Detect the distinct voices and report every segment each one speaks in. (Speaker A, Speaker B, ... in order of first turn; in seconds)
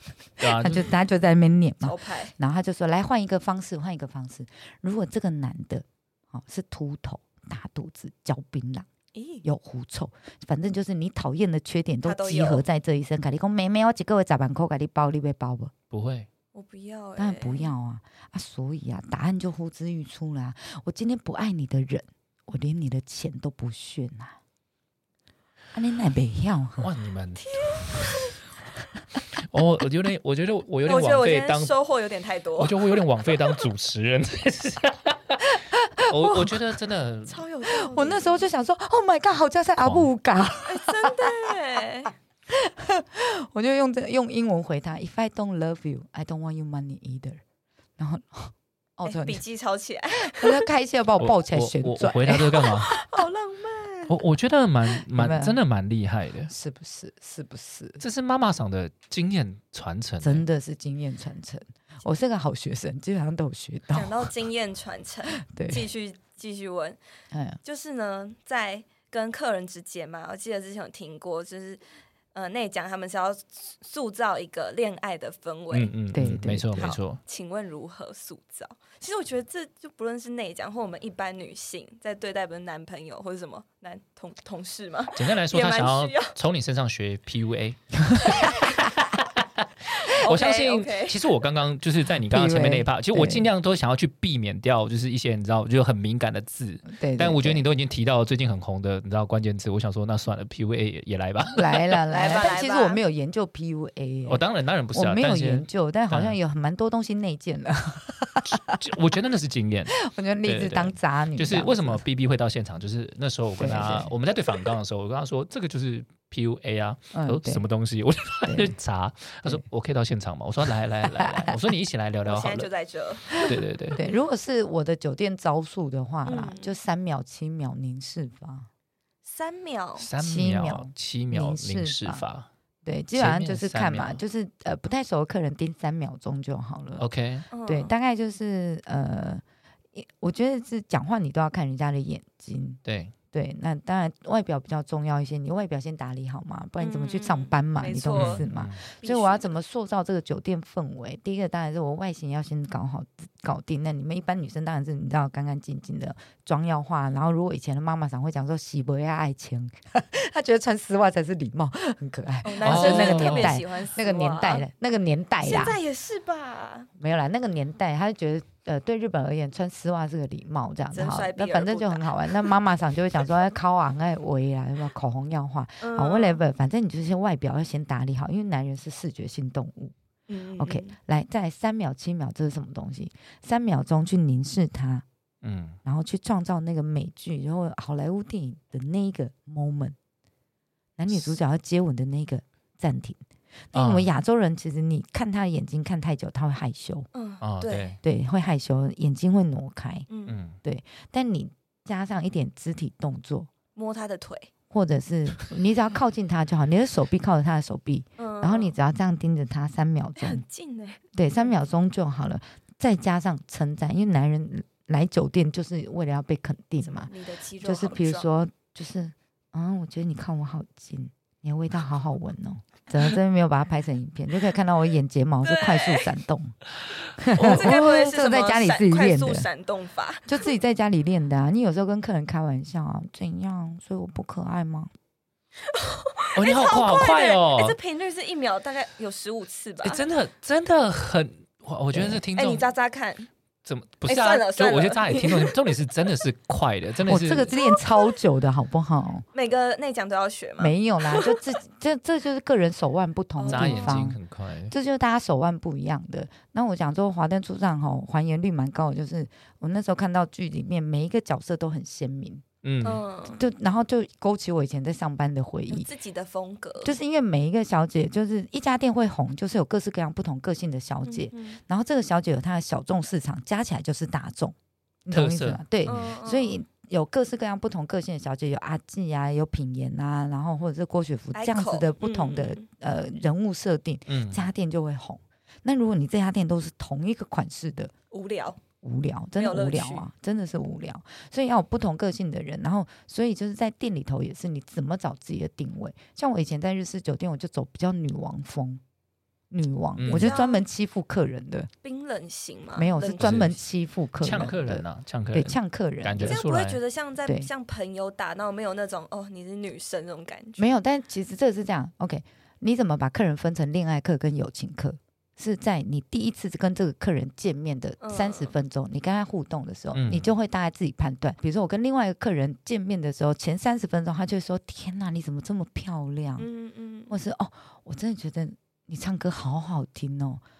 Speaker A: 0.4-8.9, 9.4-15.7, 17.2-24.4, 25.7-26.9, 35.5-36.5, 37.7-41.5, 42.5-47.4, 48.0-49.4, 50.2-52.6, 55.1-55.6, 56.5-58.0, 60.2-64.3, 65.4-65.9, 67.3-67.6, 76.1-77.0, 92.2-93.5, 96.8-97.7, 101.5-108.9, 109.9-112.0, 113.6-114.1, 117.1-117.6, 118.5-118.7, 121.1-121.5, 123.3-128.7, 130.2-132.2, 132.8-137.0, 137.7-139.4, 139.9-142.8, 143.3-165.8, 167.0-179.9, 180.6-185.0, 185.8-189.9, 191.0-193.2, 193.7-197.1, 198.0-200.1, 200.6-203.5, 204.7-210.4, 211.1-217.1, 217.6-226.6, 227.2-229.5, 230.3-234.9, 241.9-242.2, 247.1-249.2, 250.6-254.2, 254.7-262.4, 263.3-265.9, 266.8-287.9, 288.8-298.8, 299.5-301.7, 302.8-306.4, 310.6-326.5, 327.1-330.4
Speaker B: 0.4-0.9, 15.9-16.3, 26.8-28.0, 29.4-31.7, 32.6-37.5, 39.8-40.1, 51.2-52.9, 54.1-56.5, 58.0-60.5, 75.7-77.2, 85.1-102.0, 104.2-106.4, 108.4-122.7, 123.4-124.0, 130.0-132.5, 133.1-134.2, 137.0-137.5, 142.8-143.1, 148.1-148.8, 162.6-163.6, 185.4-185.8, 193.7-194.1, 197.4-198.0, 200.3-200.6, 236.3-237.8, 239.8-242.7, 243.6-247.5, 253.5-254.7, 262.6-263.0, 275.1-275.6, 284.1-284.4, 300.0-300.3, 303.2-303.6, 304.2-306.8, 319.9-320.3
Speaker C: 1.8-2.3, 9.1-9.4, 12.0-12.6, 16.5-17.7, 27.4-28.4, 30.8-32.9, 37.3-38.4, 40.7-42.1, 49.0-50.6, 52.7-54.2, 63.9-67.0, 67.6-71.8, 72.3-75.9, 76.8-86.3, 90.0-91.2, 102.1-103.0, 122.2-123.5, 126.2-126.8, 129.2-130.1, 137.5-137.9, 146.8-148.4, 149.0-149.5, 162.4-164.6, 165.4-166.9, 170.9-172.5, 175.8-176.4, 180.3-180.9, 197.1-198.0, 200.1-200.4, 203.8-204.5, 208.2-208.7, 210.2-211.6, 216.8-218.3, 225.4-226.1, 227.3-230.4, 235.6-240.0, 242.3-243.3, 244.0-245.6, 249.3-251.4, 253.4-254.0, 262.8-263.4, 265.7-266.9, 271.1-271.6, 275.9-276.6, 281.3-282.6, 288.1-288.6, 289.4-290.1, 300.1-300.6, 301.8-303.4, 306.2-310.7, 318.0-318.5, 326.4-327.1